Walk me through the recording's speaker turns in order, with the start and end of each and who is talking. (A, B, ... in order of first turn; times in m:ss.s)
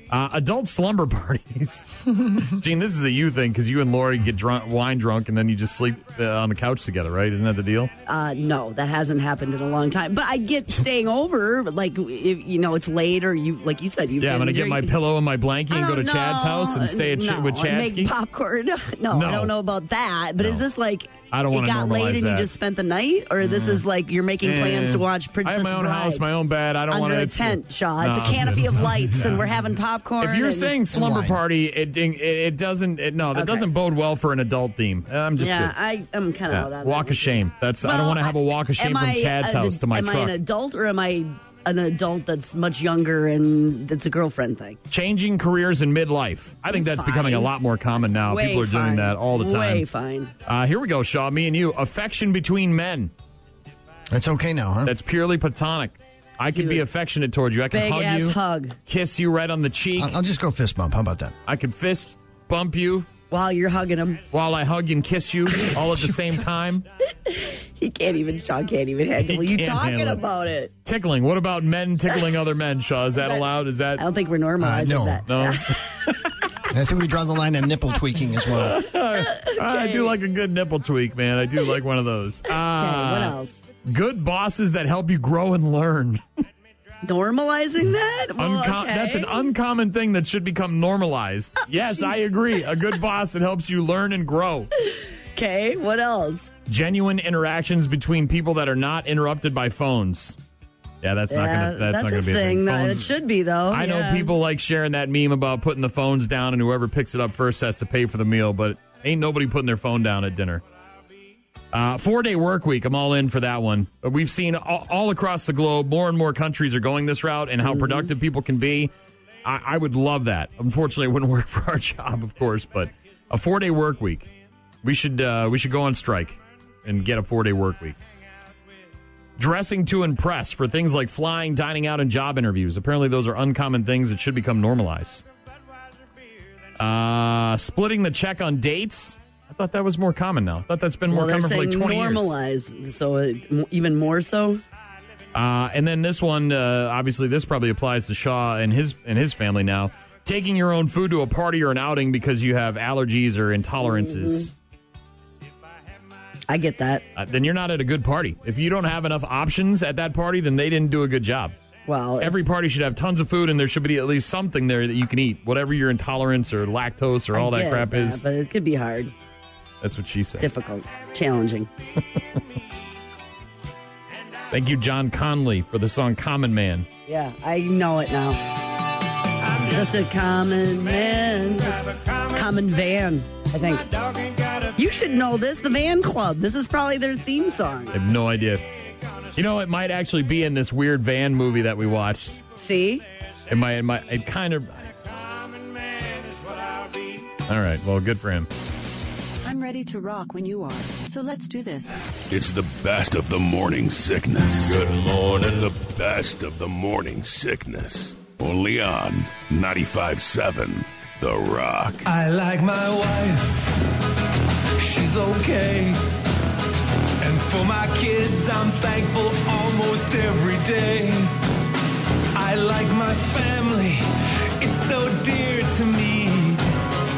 0:00.1-0:07.9 A
0:08.1-0:14.9 B
0:14.2-0:18.1 A
0:15.7-0:26.2 B
0:19.1-0:19.5 A
0:21.3-0:22.5 A
0:23.4-0:23.8 A
0:24.4-0:29.3 A
0:26.9-0:30.8 B
0:30.2-0:35.7 A
0:30.9-0:31.4 C
0:33.4-0:33.7 B
0:35.4-0:44.8 B
0:36.5-0:40.4 A
0:44.9-0:49.8 A
0:46.7-0:50.3 B
0:50.5-0:53.1 A
0:54.1-0:54.9 C
0:54.8-1:00.2 A
0:56.5-0:56.8 B
0:57.7-0:58.8 B
1:00.0-1:01.4 C
1:01.5-1:03.1 A
1:03.3-1:04.2 B
1:04.3-1:06.8 A
1:07.2-1:10.7 B
1:09.2-1:10.2 A
1:10.8-1:14.0 A
1:13.2-1:13.4 B
1:14.0-1:15.8 B
1:14.6-1:15.2 C
1:15.3-1:16.2 A
1:16.7-1:18.8 C
1:18.5-1:26.2 A
1:19.3-1:20.1 B
1:22.7-1:23.6 B
1:27.0-1:29.5 B
1:28.4-1:34.7 A
1:31.7-1:32.2 B
1:34.8-1:36.5 B
1:36.7-1:40.4 A
1:41.0-1:43.1 A
1:41.3-1:44.3 B
1:43.7-1:50.6 A
1:51.7-1:58.9 A
1:57.6-1:58.1 B
1:59.4-2:04.3 A
2:04.8-2:08.0 A
2:09.4-2:15.2 A
2:16.8-2:22.3 A
2:21.1-2:24.6 B
2:25.3-2:34.5 A
2:33.8-2:34.5 B
2:36.5-2:37.0 B
2:37.2-2:41.6 A
2:41.9-2:42.4 B
2:42.2-2:48.2 A
2:47.3-2:49.1 B
2:49.8-2:50.5 A
2:50.4-2:51.7 B
2:54.5-2:56.9 A
2:57.1-2:58.5 B
2:59.6-3:04.0 B
3:04.8-3:08.0 B
3:07.9-3:08.6 A
3:09.3-3:12.4 A
3:12.6-3:13.0 B
3:13.5-3:15.0 A
3:17.5-3:18.5 A
3:19.4-3:22.0 D
3:22.3-3:32.1 E
3:32.0-3:33.7 F
3:34.8-3:36.0 F
3:37.2-3:41.3 F
3:42.4-3:44.1 F
3:44.6-3:46.6 F